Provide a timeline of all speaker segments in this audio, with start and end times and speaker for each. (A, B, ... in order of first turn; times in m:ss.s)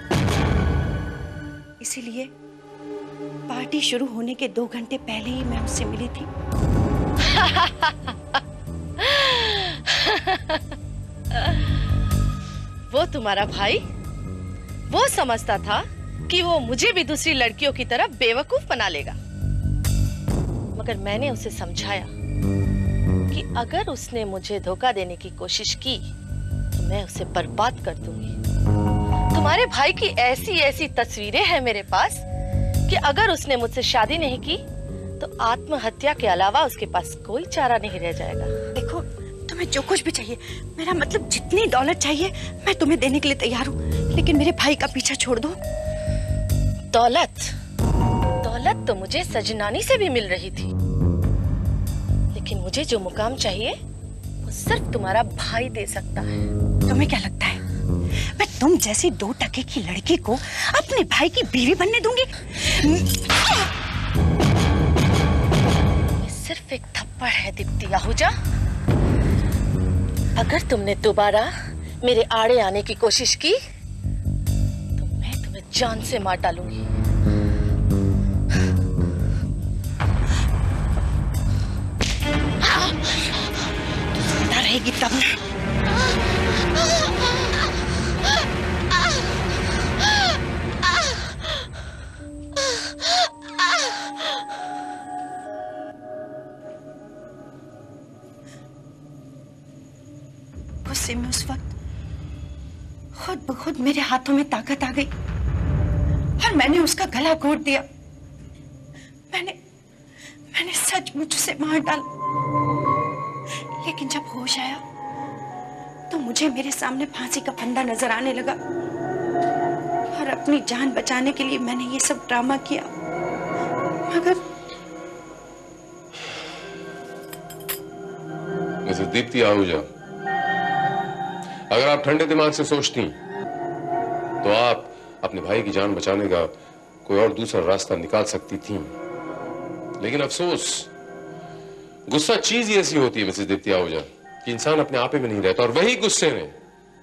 0:01.8-0:02.3 A
0:03.5-0:06.3 A
0:07.3-0:07.9 B
0:09.0-0:10.6 B
0:12.9-0:13.8 B
0:14.9-0:19.2 B
0:20.8-0:22.1 B
0:23.3-0:26.1 B
0:26.7-0:28.3 B
0:29.3-0:32.2 B
0:32.9-0:34.6 B
0:35.2-0:38.5 B
0:38.7-0:45.6 A
0:46.9-0:47.5 B
0:48.4-0:50.7 B
0:52.3-0:53.7 B
0:54.4-0:56.3 B
0:56.9-0:57.6 A
0:58.3-1:03.4 A
1:06.2-1:08.3 B
1:10.4-1:11.5 B
1:12.0-1:13.6 B
1:15.0-1:16.8 B
1:24.5-1:25.4 A
1:40.8-1:41.7 A
1:43.1-1:45.1 A
1:46.4-1:47.8 A
1:49.3-1:49.6 A
1:50.5-1:52.0 A
1:53.8-1:54.8 A
1:56.1-1:58.6 A
2:00.1-2:02.9 A
2:04.1-2:04.4 A
2:08.8-2:09.8 C
2:11.7-2:13.1 C
2:14.4-2:16.5 C
2:17.0-2:18.9 C
2:20.0-2:20.9 C
2:22.1-2:26.5 C